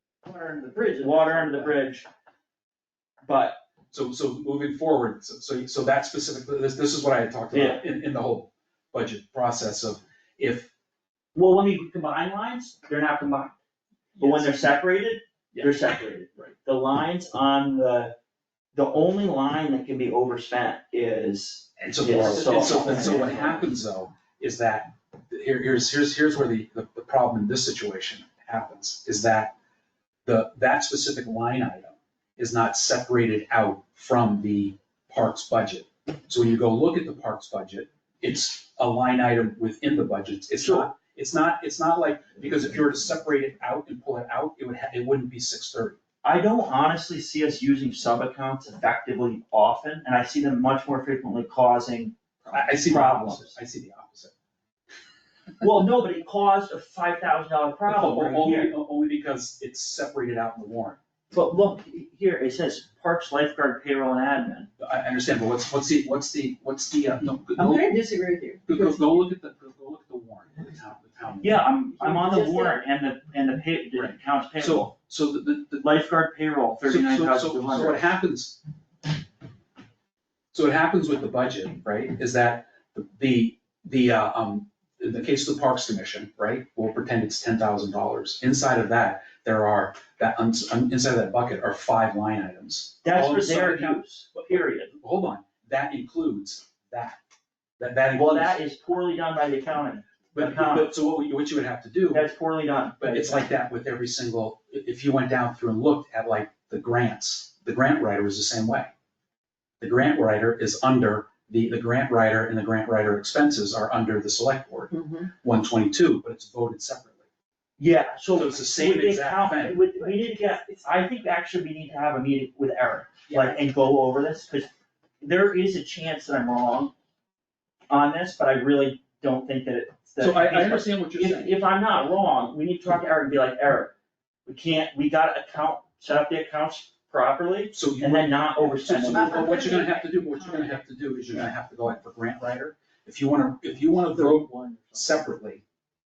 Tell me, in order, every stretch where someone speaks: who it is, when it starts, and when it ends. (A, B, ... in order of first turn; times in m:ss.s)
0:00.2-0:01.8 A
0:01.0-0:02.1 B
0:03.2-0:03.6 B
0:03.9-0:10.7 C
0:07.5-0:07.8 B
0:11.4-0:13.6 B
0:14.2-0:14.6 C
0:14.2-0:18.1 B
0:15.5-0:16.5 C
0:18.7-0:23.7 B
0:21.8-0:29.5 C
0:22.8-0:23.2 A
0:30.2-0:46.0 C
0:40.6-0:40.9 B
0:46.2-0:53.6 B
0:52.5-0:54.3 C
0:55.6-0:58.7 B
0:57.9-1:01.0 C
1:01.3-1:04.7 B
1:04.8-1:07.9 C
1:07.6-1:09.1 A
1:08.7-1:11.6 C
1:11.4-1:14.9 B
1:12.0-1:12.8 A
1:13.9-1:15.9 C
1:15.8-1:18.1 B
1:16.8-1:18.6 C
1:20.5-1:34.0 C
1:33.0-1:34.9 B
1:35.0-1:37.2 C
1:37.8-1:38.6 C
1:38.2-1:40.9 B
1:40.3-1:42.3 C
1:42.1-1:43.5 B
1:43.0-1:48.9 C
1:49.8-1:57.3 C
1:54.9-1:55.3 A
1:57.8-2:04.7 B
1:58.3-1:59.8 C
2:00.0-2:00.3 A
2:03.3-2:03.6 C
2:05.2-2:06.9 B
2:07.9-2:13.9 B
2:10.2-2:11.6 C
2:14.5-2:19.6 B
2:17.7-2:25.6 C
2:19.1-2:20.8 A
2:24.1-2:25.2 B